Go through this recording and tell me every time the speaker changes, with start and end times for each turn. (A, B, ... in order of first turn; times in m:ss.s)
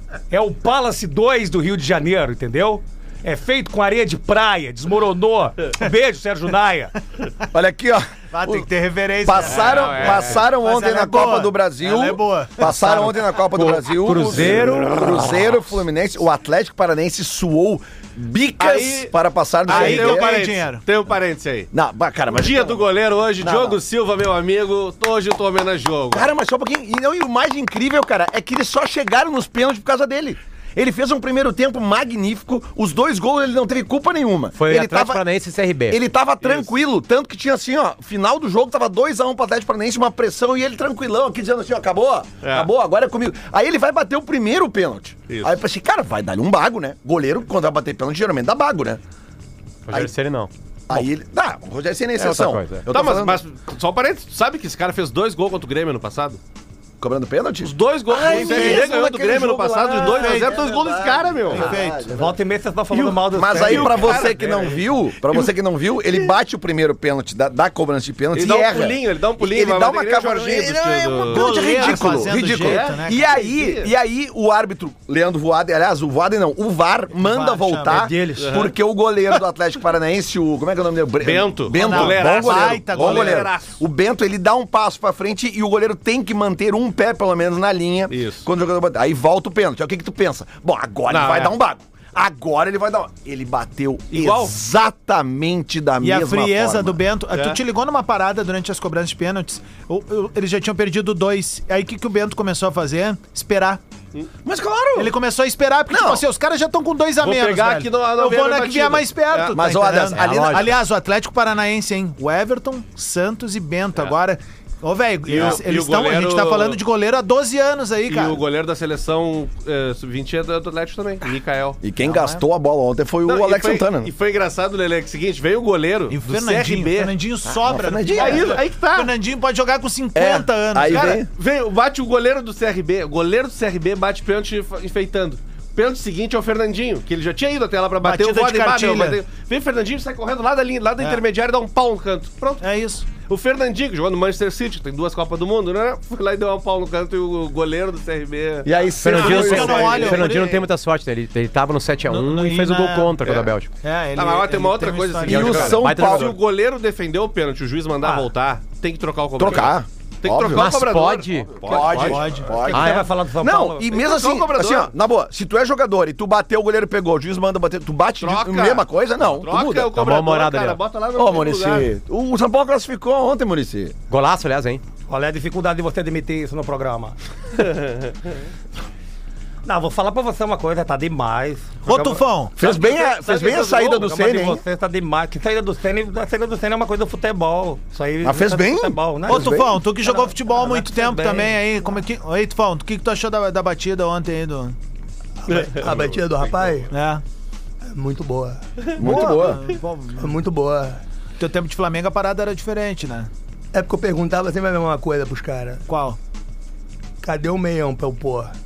0:00.3-0:06.9 A
0:07.5-0:08.7 B
0:08.3-0:13.3 C
0:09.2-0:20.3 B
0:09.5-0:10.4 D
0:13.5-0:15.4 E
0:18.6-0:19.1 D
0:19.7-0:20.8 C
0:19.7-0:21.7 D
0:21.7-0:22.9 B
0:22.3-0:26.3 D
0:23.4-0:23.8 B
0:26.1-0:35.2 B
0:34.6-0:36.0 E
0:35.9-0:49.0 B
0:36.4-0:36.7 D
0:42.4-0:42.7 D
0:45.3-0:45.6 D
0:49.8-0:51.1 E
0:50.9-0:53.4 B
0:52.2-0:52.9 E
0:52.9-0:56.4 D
0:57.0-1:02.4 B
0:57.6-1:01.7 D
0:58.3-0:58.8 C
1:00.0-1:00.6 C
1:01.5-1:02.1 C
1:02.1-1:04.2 A
1:03.1-1:37.0 B
1:03.5-1:05.5 D
1:08.3-1:13.9 D
1:11.3-1:13.4 C
1:17.2-1:18.1 C
1:17.9-1:18.5 F
1:18.4-1:18.7 D
1:21.2-1:23.8 D
1:21.8-1:23.5 C
1:28.1-1:28.4 D
1:31.1-1:31.5 D
1:34.1-1:34.5 D
1:36.0-1:43.8 C
1:37.3-1:37.6 D
1:44.4-1:45.1 B
1:45.0-1:58.4 C
1:45.9-1:46.2 B
1:47.2-1:49.6 D
1:49.5-1:50.8 B
1:50.1-1:50.8 E
1:55.3-1:56.8 D
1:55.3-1:55.6 B
1:58.1-2:01.8 D
2:01.8-2:04.1 B
2:02.0-2:02.4 C
2:03.2-2:07.1 D
2:06.1-2:11.2 C
2:07.4-2:08.6 B
2:08.1-2:09.1 D
2:10.1-2:11.3 B
2:10.9-2:30.6 D
2:18.0-2:19.2 C
2:22.6-2:23.0 C
2:28.6-2:30.2 B
2:29.0-2:33.7 E
2:29.2-2:30.6 C
2:32.1-2:35.8 C
2:34.2-2:42.6 D
2:35.2-2:36.4 B
2:35.6-2:36.4 E
2:38.0-2:38.3 A
2:39.4-2:40.8 B
2:40.5-2:41.6 E
2:41.6-2:49.8 B
2:41.8-2:42.6 C
2:42.4-2:43.9 A
2:43.9-2:44.9 D
2:48.2-2:51.9 D
2:49.5-2:50.8 E
2:51.2-2:53.9 B
2:54.1-2:54.8 E
2:55.1-2:57.2 A
2:59.6-3:11.6 A
3:01.8-3:02.6 C
3:02.6-3:04.6 B
3:08.2-3:09.8 B
3:09.3-3:14.8 C
3:15.5-3:16.9 F
3:15.5-3:16.0 A
3:16.9-3:17.2 C
3:18.0-3:18.6 F
3:18.9-3:19.6 B
3:18.9-3:20.3 C
3:20.2-3:21.0 F
3:21.4-3:23.3 C
3:23.7-3:25.8 F
3:25.9-3:26.2 C
3:27.2-3:28.4 A
3:27.3-3:28.3 F